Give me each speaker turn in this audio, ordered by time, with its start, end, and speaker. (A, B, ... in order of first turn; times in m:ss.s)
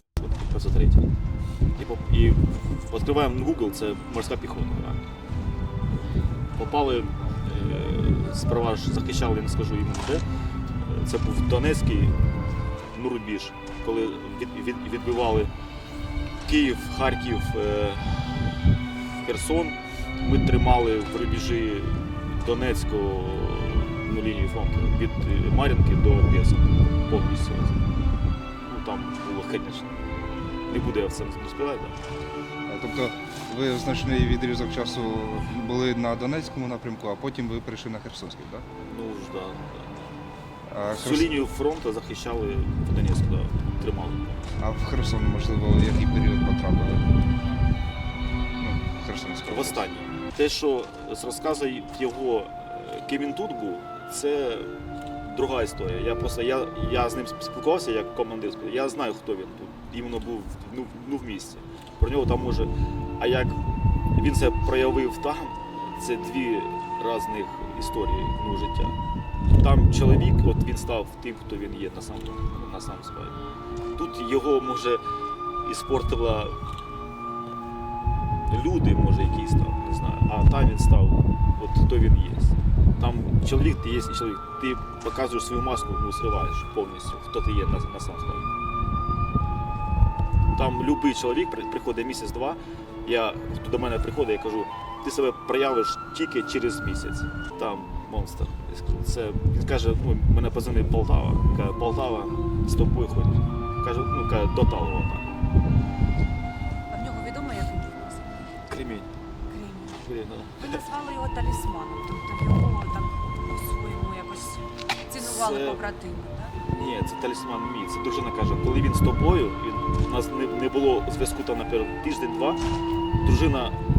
0:00.2-0:01.1 A
0:01.8-0:05.0 A
0:06.6-0:10.2 A
0:10.8-0:12.2 A
0:12.9-0:15.5 A
0:16.4-0:18.5 A
0:19.2-0:27.8 A
0:28.6-0:30.0 A
0:30.7-0:32.0 A
0:32.7-0:38.6 B
0:38.9-0:39.9 A
0:40.7-0:41.3 B
0:40.9-0:44.4 A
0:44.6-0:47.1 B
0:48.6-0:49.8 B
0:49.4-0:54.7 A
0:55.3-1:03.6 A
1:04.1-1:09.0 A
1:09.5-1:13.4 A
1:14.0-1:15.0 A
1:15.6-1:16.6 A
1:18.5-1:28.4 A
1:30.5-1:45.3 A
1:46.9-1:48.2 C
1:48.7-1:49.1 A
1:49.5-1:50.0 C
1:50.0-1:50.8 A
1:50.6-1:56.6 C
1:55.1-1:55.9 A
1:56.6-2:02.6 A
2:03.2-2:03.8 A